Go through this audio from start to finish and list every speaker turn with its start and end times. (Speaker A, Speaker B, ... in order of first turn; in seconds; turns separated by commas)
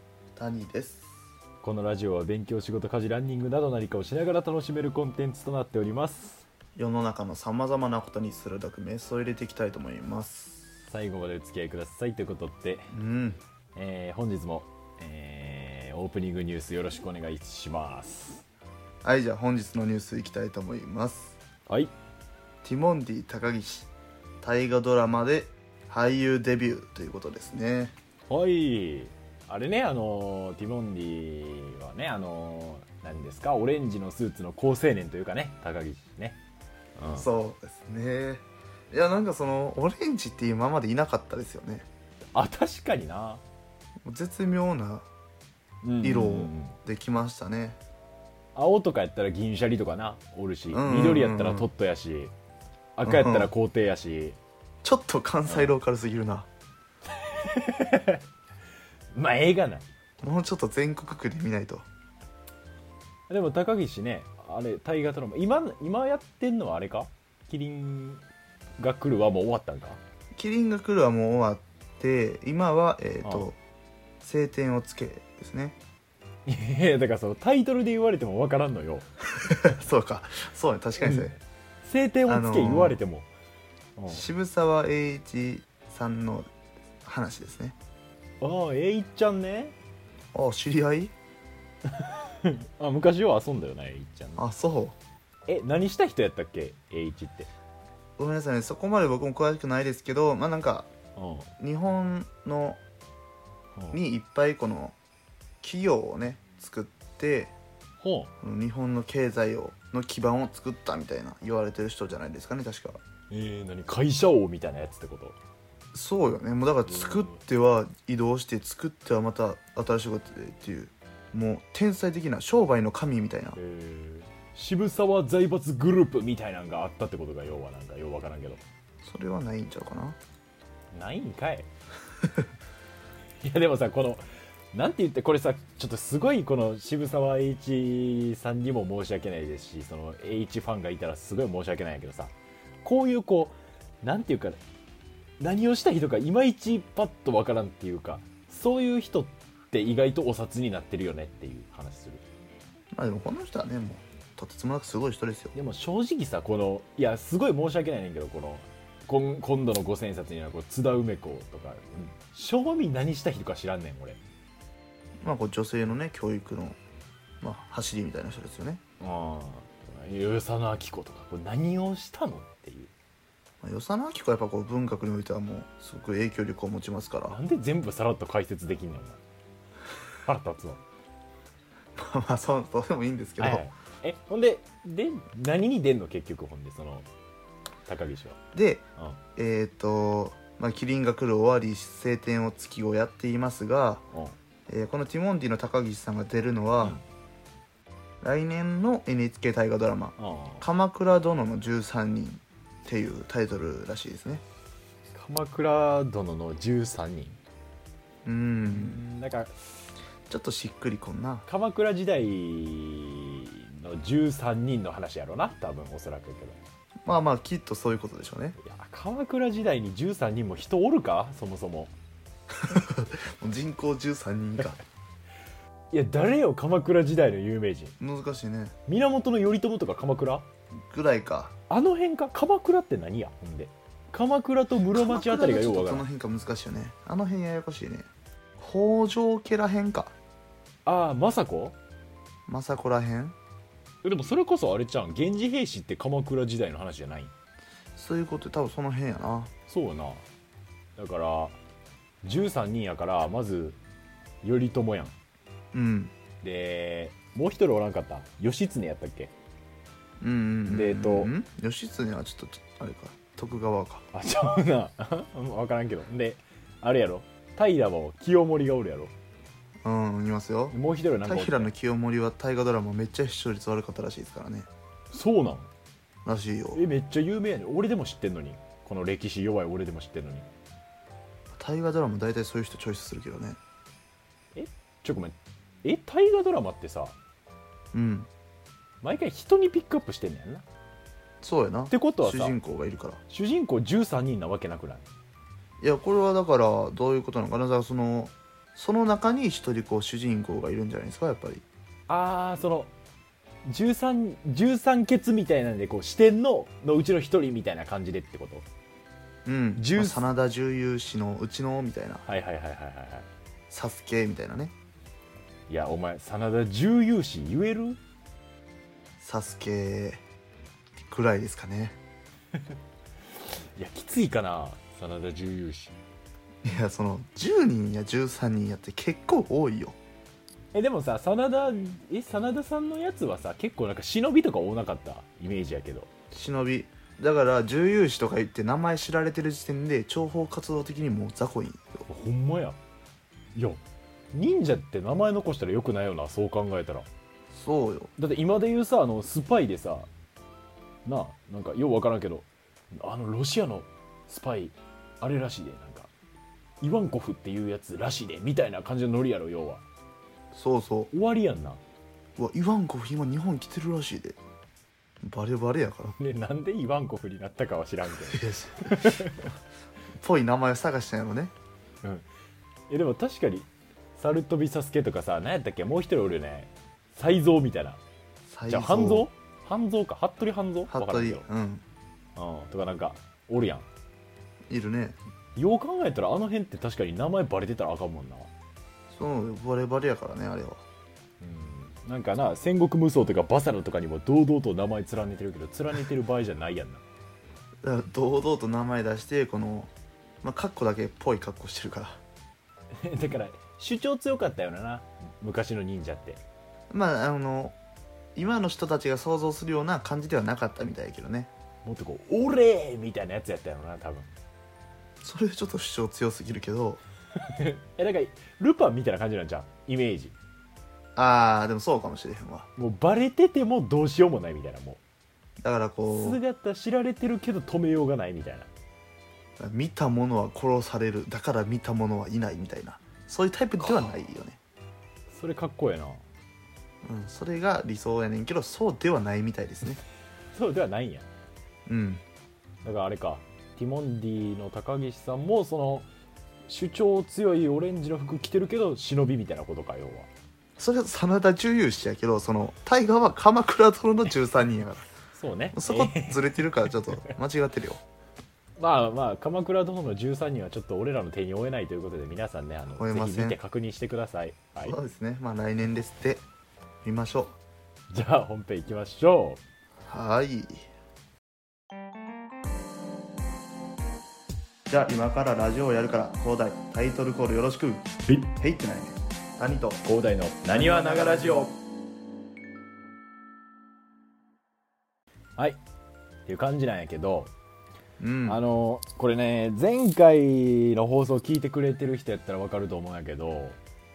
Speaker A: 0.4-1.1, Speaker B: 1.6-6.5, Speaker A: 6.8-10.7, Speaker B: 10.9-12.9, Speaker A: 12.9-13.4, Speaker B: 13.8-18.4, Speaker A: 19.0-21.4, Speaker A: 22.6-23.9, Speaker A: 24.4-27.9, Speaker B: 28.3-36.4, Speaker B: 37.0-37.3, Speaker A: 37.1-41.9, Speaker B: 42.3-43.4, Speaker A: 44.0-45.1, Speaker B: 45.8-46.8, Speaker A: 46.0-47.8, Speaker B: 48.5-52.3, Speaker A: 50.7-51.7, Speaker B: 53.0-54.4, Speaker A: 53.0-53.5, Speaker A: 54.8-56.5, Speaker B: 55.5-55.7, Speaker B: 57.2-58.2, Speaker B: 59.1-59.9, Speaker A: 60.2-61.8, Speaker B: 63.3-68.2, Speaker B: 68.8-70.0, Speaker A: 70.3-73.6, Speaker B: 73.2-73.5, Speaker A: 74.2-75.8, Speaker B: 76.5-79.1, Speaker A: 79.4-81.3, Speaker B: 81.0-81.3, Speaker B: 81.8-83.3, Speaker A: 82.3-83.0, Speaker B: 84.0-84.2, Speaker A: 84.1-86.5, Speaker A: 87.0-87.8, Speaker B: 88.4-89.7, Speaker A: 90.3-91.1, Speaker B: 91.8-94.4, Speaker A: 94.4-95.0, Speaker B: 95.5-97.5, Speaker A: 98.2-100.9, Speaker B: 101.2-101.5, Speaker A: 101.6-102.8, Speaker A: 103.9-104.9, Speaker A: 105.6-107.5, Speaker B: 108.0-108.3, Speaker A: 108.4-113.0, Speaker B: 113.3-115.3, Speaker A: 115.9-123.6, Speaker B: 116.9-117.4, Speaker B: 123.5-128.6, Speaker A: 129.0-130.2, Speaker B: 130.9-131.7, Speaker B: 133.4-142.3, Speaker B: 142.8-144.6, Speaker B: 145.4-152.2, Speaker A: 152.9-155.5, Speaker B: 155.5-164.2, Speaker A: 165.2-166.8, Speaker A: 167.4-168.8, Speaker B: 169.0-172.9, Speaker A: 173.6-177.4, Speaker B: 177.3-179.2, Speaker B: 180.2-180.8, Speaker A: 181.9-183.7, Speaker B: 183.4-187.1, Speaker B: 187.8-188.4, Speaker A: 188.5-194.0, Speaker A: 194.7-197.0, Speaker A: 198.2-204.4, Speaker B: 200.2-200.7, Speaker B: 205.1-207.4, Speaker A: 208.2-209.0, Speaker B: 208.7-209.8, Speaker A: 210.3-211.4, Speaker B: 211.5-216.6, Speaker A: 217.1-218.6, Speaker B: 218.6-221.9, Speaker A: 222.5-224.8, Speaker B: 225.9-227.9, Speaker A: 228.0-228.8, Speaker B: 228.9-230.4, Speaker A: 230.9-231.5, Speaker B: 231.7-236.0, Speaker A: 234.9-238.1, Speaker A: 238.6-240.1, Speaker B: 240.8-241.8, Speaker A: 242.5-243.3, Speaker B: 244.0-247.3, Speaker A: 248.0-249.5, Speaker B: 249.7-250.2, Speaker B: 251.0-251.6, Speaker B: 252.2-253.8, Speaker B: 254.4-255.1, Speaker A: 255.7-256.1, Speaker B: 256.4-259.3, Speaker A: 260.2-264.1, Speaker B: 260.7-261.3, Speaker B: 264.1-269.1, Speaker A: 269.8-270.8, Speaker B: 270.7-271.7, Speaker A: 271.3-274.7, Speaker B: 275.1-275.7, Speaker A: 276.2-276.8, Speaker B: 276.7-280.5, Speaker A: 281.5-283.6, Speaker B: 284.6-287.2, Speaker A: 287.9-288.3, Speaker B: 289.0-290.7, Speaker A: 291.4-293.2, Speaker B: 291.9-292.6, Speaker B: 293.3-295.1, Speaker A: 295.8-301.6, Speaker B: 302.1-302.9, Speaker B: 303.6-308.7, Speaker A: 309.4-312.2, Speaker B: 309.8-310.3, Speaker B: 312.3-313.3, Speaker A: 313.7-314.7, Speaker B: 315.7-318.0, Speaker A: 319.2-320.2, Speaker A: 321.0-322.0, Speaker B: 323.8-326.0, Speaker A: 326.6-330.0, Speaker B: 330.7-336.1, Speaker A: 336.3-342.0, Speaker B: 342.1-342.8, Speaker B: 343.6-343.8, Speaker B: 344.3-347.1, Speaker A: 347.5-348.1, Speaker B: 348.2-350.1, Speaker B: 351.1-356.1, Speaker B: 356.8-359.8, Speaker A: 360.5-361.1, Speaker B: 361.1-361.8, Speaker A: 362.4-364.4, Speaker A: 365.2-366.1, Speaker B: 366.1-369.5, Speaker A: 368.3-369.3, Speaker A: 370.2-371.5, Speaker B: 372.9-378.0, Speaker A: 378.5-379.3, Speaker B: 378.7-381.4, Speaker A: 380.9-381.8, Speaker B: 382.4-383.9, Speaker A: 384.7-385.2, Speaker B: 385.6-388.5, Speaker A: 389.1-390.8, Speaker B: 391.4-397.0, Speaker A: 397.8-399.9, Speaker A: 400.4-402.2, Speaker B: 403.0-406.4, Speaker A: 406.9-407.8, Speaker A: 408.4-411.5, Speaker B: 411.9-414.3, Speaker A: 415.2-417.0, Speaker B: 417.4-420.4, Speaker A: 421.2-422.7, Speaker B: 422.8-425.0, Speaker A: 425.6-426.4, Speaker B: 426.1-428.7, Speaker A: 429.6-434.6, Speaker B: 435.3-436.2, Speaker A: 437.0-440.0, Speaker B: 440.5-441.3, Speaker A: 441.9-442.2, Speaker B: 442.8-446.1, Speaker B: 446.7-450.3, Speaker A: 450.8-455.1, Speaker B: 455.3-457.3, Speaker A: 455.7-458.0, Speaker B: 458.8-465.0, Speaker A: 463.0-463.6, Speaker A: 464.9-466.4, Speaker A: 467.0-467.6, Speaker B: 468.1-469.6, Speaker A: 470.1-470.9, Speaker A: 474.9-480.0, Speaker B: 478.3-478.5, Speaker B: 480.0-481.8, Speaker A: 480.8-481.6, Speaker B: 486.5-487.5, Speaker A: 488.2-488.6, Speaker B: 488.5-493.8